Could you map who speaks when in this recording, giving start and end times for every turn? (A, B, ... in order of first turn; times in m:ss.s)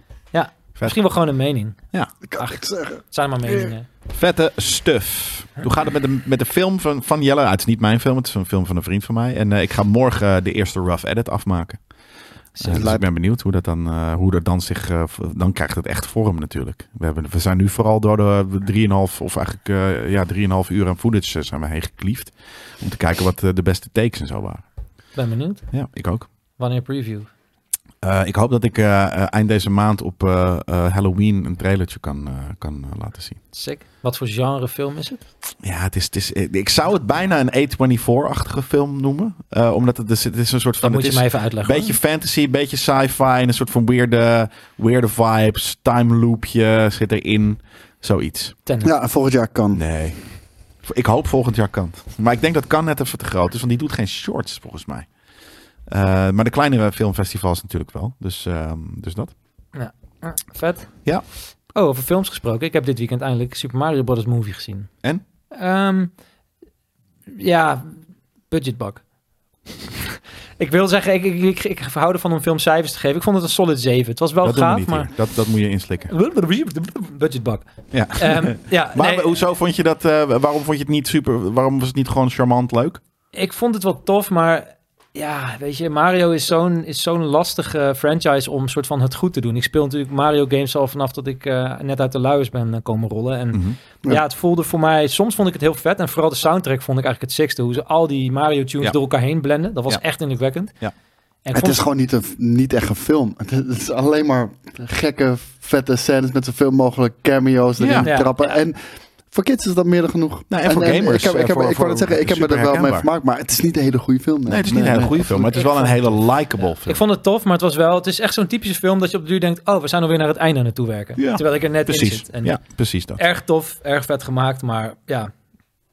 0:00.3-0:01.8 A
0:02.3-0:03.7 B
0:02.4-0:03.9 A
0:04.1-0:11.8 C
0:12.6-0:12.9 A
0:12.6-0:13.0 B
0:12.6-0:24.6 C
0:25.2-0:25.7 A
0:25.7-0:26.3 C
0:26.6-0:27.3 A
0:28.0-0:33.4 C
0:33.5-0:35.2 A
0:35.6-0:48.6 C
0:40.8-0:42.0 A
0:48.8-0:49.8 B
0:49.7-0:50.2 C
0:50.8-0:55.1 C
0:55.9-0:59.3 C
0:59.7-1:01.0 A
1:01.8-1:04.9 A
1:05.5-1:06.1 A
1:07.3-1:08.0 A
1:08.5-1:09.0 A
1:10.6-1:15.1 A
1:14.4-1:16.1 C
1:16.1-1:19.3 A
1:17.9-1:23.0 C
1:23.3-1:40.7 A
1:33.5-1:33.8 C
1:41.4-1:41.8 A
1:41.5-1:55.6 B
1:47.8-1:48.1 C
1:48.0-1:48.5 A
1:50.5-1:53.1 C
1:54.5-1:57.0 C
1:55.5-1:56.2 A
1:56.8-2:02.6 A
2:01.2-2:03.2 C
2:03.2-2:05.3 A